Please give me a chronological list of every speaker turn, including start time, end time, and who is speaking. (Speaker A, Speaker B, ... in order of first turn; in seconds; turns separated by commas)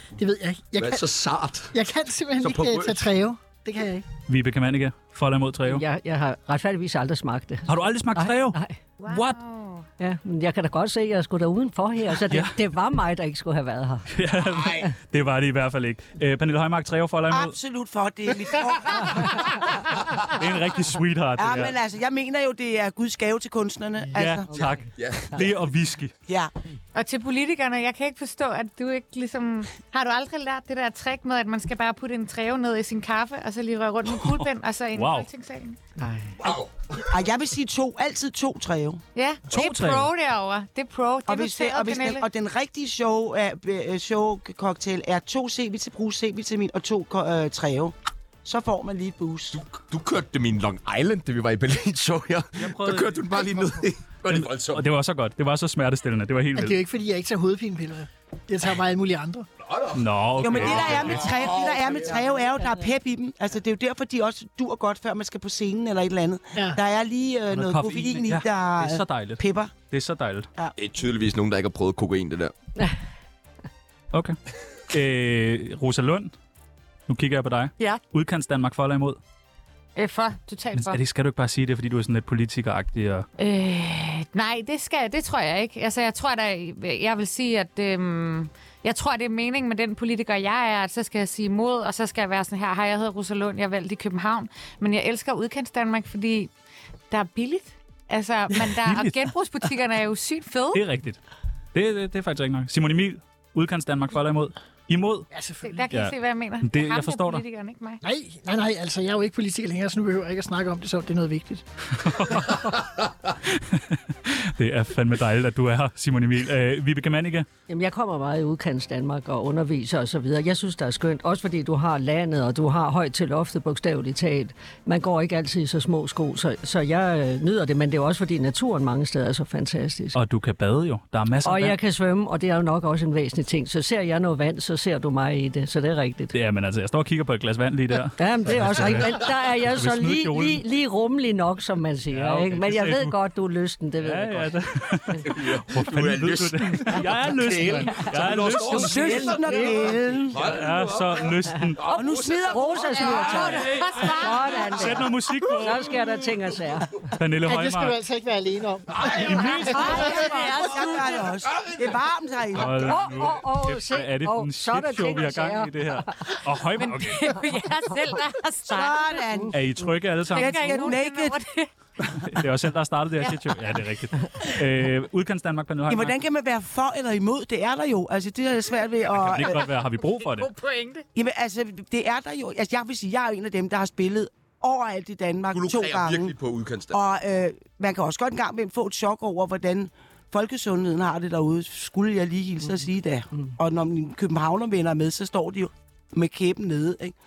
Speaker A: 0.1-1.1, Speaker B: 0.8-1.7, Speaker A: 1.7-4.0, Speaker B: 2.4-3.1, Speaker C: 4.3-5.8, Speaker D: 5.7-8.8, Speaker C: 7.7-9.3, Speaker E: 9.0-9.9, Speaker D: 10.0-14.1, Speaker C: 12.3-12.6, Speaker C: 14.1-17.5, Speaker B: 14.5-14.8, Speaker F: 17.3-19.6, Speaker C: 19.1-21.7, Speaker F: 21.4-24.5, Speaker C: 24.1-26.1, Speaker B: 24.9-25.5, Speaker E: 26.9-35.8, Speaker C: 34.1-35.3, Speaker D: 36.0-36.4, Speaker B: 36.4-36.7, Speaker F: 37.0-39.0, Speaker E: 39.1-42.2, Speaker C: 39.5-40.1, Speaker F: 41.3-47.9, Speaker F: 48.4-49.6, Speaker B: 49.5-54.8, Speaker C: 52.6-53.3, Speaker C: 54.3-56.8, Speaker A: 56.5-59.5, Speaker B: 59.6-62.4, Speaker C: 59.9-61.3, Speaker F: 60.4-69.7, Speaker C: 67.5-70.5, Speaker B: 70.8-72.5, Speaker C: 74.1-74.4, Speaker C: 74.9-76.3, Speaker C: 77.1-79.2, Speaker E: 80.0-81.0, Speaker C: 80.7-83.3, Speaker E: 83.4-96.5, Speaker E: 97.1-100.8, Speaker C: 98.7-99.2, Speaker C: 100.7-101.2, Speaker C: 101.7-105.3, Speaker A: 105.3-105.8, Speaker E: 105.6-108.0, Speaker C: 105.9-107.4, Speaker A: 108.0-111.6, Speaker C: 112.0-117.5, Speaker D: 117.7-130.2, Speaker C: 130.1-131.8, Speaker D: 131.4-136.3, Speaker C: 136.3-140.6, Speaker D: 138.2-144.5, Speaker C: 142.1-143.1, Speaker C: 144.0-149.4, Speaker B: 145.2-154.3, Speaker F: 148.6-150.5, Speaker C: 150.4-151.9, Speaker F: 151.9-153.4, Speaker D: 152.4-157.1, Speaker E: 153.0-155.0, Speaker C: 154.7-156.0, Speaker B: 155.9-156.3, Speaker C: 157.2-157.9, Speaker A: 157.4-160.1, Speaker B: 158.9-159.5, Speaker C: 159.1-160.6, Speaker E: 159.3-161.2, Speaker F: 159.9-163.0, Speaker B: 161.3-161.9, Speaker C: 162.5-167.4, Speaker D: 162.8-166.3, Speaker E: 166.8-169.2, Speaker F: 168.7-169.6, Speaker C: 169.5-170.9, Speaker F: 170.3-171.3, Speaker E: 170.3-171.7, Speaker C: 172.1-176.2, Speaker F: 175.9-179.7, Speaker C: 179.1-180.5, Speaker E: 180.0-181.0, Speaker F: 181.1-186.3, Speaker B: 185.5-186.9, Speaker F: 186.9-197.1